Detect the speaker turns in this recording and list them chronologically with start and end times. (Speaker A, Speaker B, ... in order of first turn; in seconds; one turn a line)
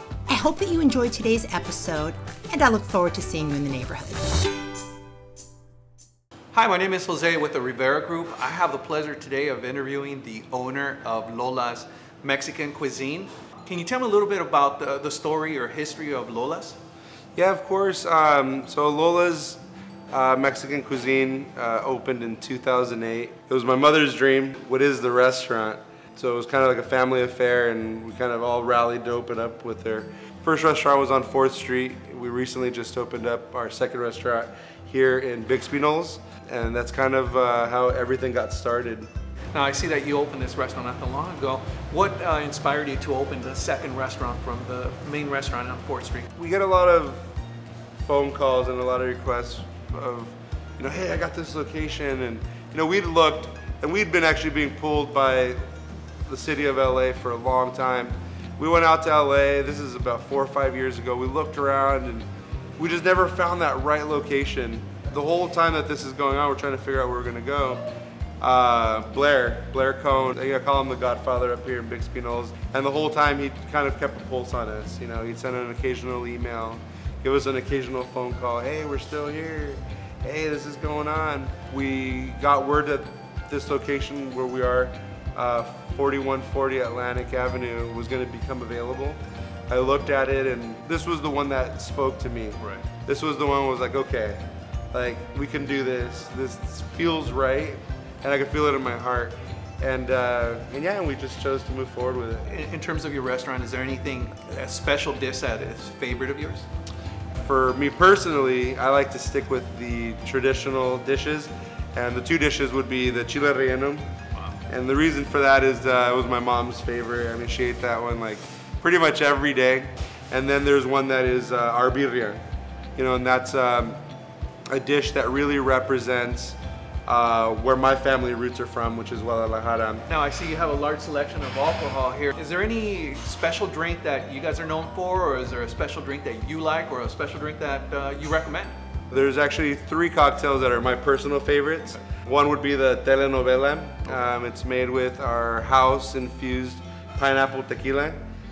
Speaker A: 0.3-4.3
Speaker B: 6.5-16.8
Speaker C: 17.4-39.1
Speaker B: 39.5-46.3
Speaker C: 46.4-47.3
Speaker C: 48.0-55.6
Speaker C: 56.3-62.3
Speaker C: 62.8-67.9
Speaker C: 68.4-102.5
Speaker B: 102.5-106.7
Speaker C: 107.4-114.0
Speaker C: 114.7-122.4
Speaker C: 123.0-124.0
Speaker C: 124.7-130.1
Speaker B: 130.1-138.7
Speaker C: 139.1-148.2